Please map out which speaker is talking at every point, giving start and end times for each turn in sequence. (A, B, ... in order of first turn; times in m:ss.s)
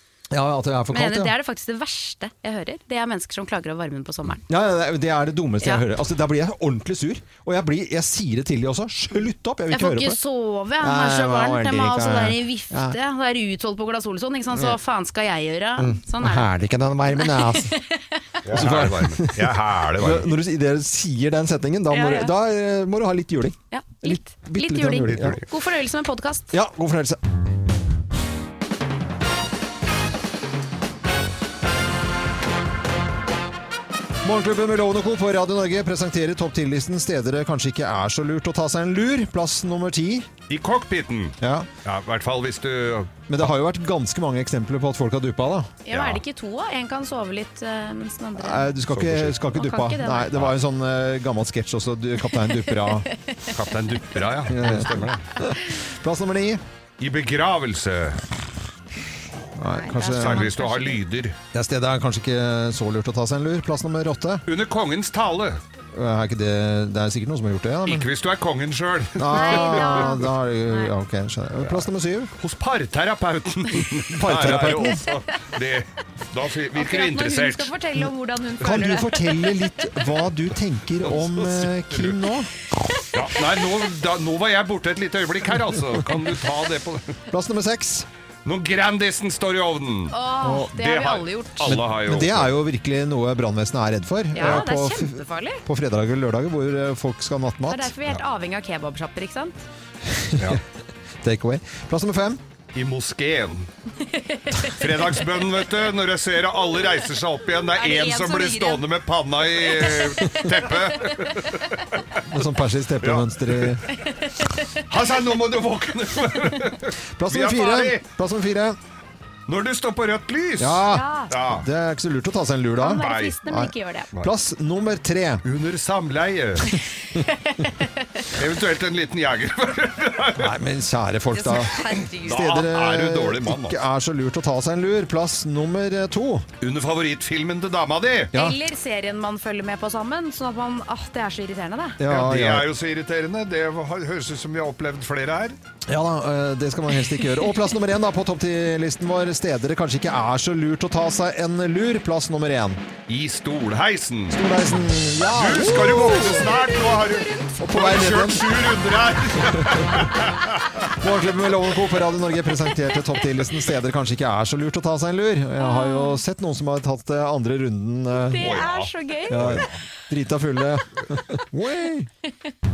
0:00.3-0:01.3 A
0:00.9-0:04.4 B
0:04.5-0:10.2 A
0:09.7-0:16.5 B
0:10.8-0:13.0 A
0:15.8-0:17.7 A
0:17.1-0:18.4 B
0:18.5-0:20.3 C
0:18.5-0:25.4 A
0:21.9-0:22.3 B
0:23.7-0:26.5 B
0:25.0-0:25.5 C
0:26.5-0:27.2 A
0:34.2-0:40.3 A
0:40.5-0:43.1 C
0:41.4-0:41.7 A
0:43.3-0:45.7 A
0:45.9-0:48.8 B
0:45.9-0:46.2 C
0:48.4-0:53.1 A
0:48.9-0:49.4 C
0:49.5-0:50.5 B
0:52.3-0:53.5 B
0:53.5-0:55.3 C
0:54.5-0:56.6 A
0:57.0-0:58.3 C
0:59.6-1:00.5 A
0:59.7-1:01.0 B
1:00.1-1:01.4 C
1:01.5-1:04.4 A
1:04.5-1:05.6 C
1:05.9-1:08.1 A
1:07.8-1:10.2 C
1:09.2-1:12.3 A
1:09.3-1:10.9 B
1:11.6-1:17.7 C
1:14.2-1:15.0 A
1:16.8-1:20.0 B
1:18.6-1:22.5 A
1:21.0-1:22.2 C
1:23.1-1:27.2 C
1:27.3-1:28.1 A
1:28.4-1:30.2 C
1:30.1-1:31.8 B
1:30.4-1:30.7 A
1:30.7-1:32.6 C
1:31.6-1:37.9 A
1:34.3-1:35.6 B
1:37.7-1:39.7 B
1:40.1-1:40.6 A
1:41.2-1:42.4 A
1:42.7-1:43.7 C
1:44.2-1:44.8 B
1:44.6-1:52.2 C
1:47.7-1:48.9 B
1:49.8-1:50.4 B
1:51.0-1:51.5 B
1:52.2-1:53.9 A
1:53.0-1:53.8 C
1:54.1-1:54.8 B
1:54.8-1:58.0 C
1:57.2-1:58.8 A
1:59.5-2:01.7 C
2:00.6-2:05.4 A
2:00.9-2:01.3 B
2:02.8-2:04.1 B
2:03.0-2:03.4 C
2:05.4-2:06.7 C
2:07.2-2:08.2 B
2:08.3-2:10.6 C
2:10.4-2:16.5 A
2:11.3-2:12.5 B
2:12.2-2:13.8 C
2:16.6-2:18.4 C
2:18.3-2:22.0 B
2:22.0-2:22.7 A
2:22.0-2:25.6 C
2:25.9-2:32.8 A
2:33.1-2:34.4 C
2:34.3-2:36.5 A
2:35.2-2:40.8 C
2:36.2-2:37.5 B
2:37.6-2:38.5 A
2:40.9-2:48.6 A
2:45.6-2:46.2 B
2:48.3-2:49.6 B
2:48.3-2:49.8 C
2:49.3-2:52.1 A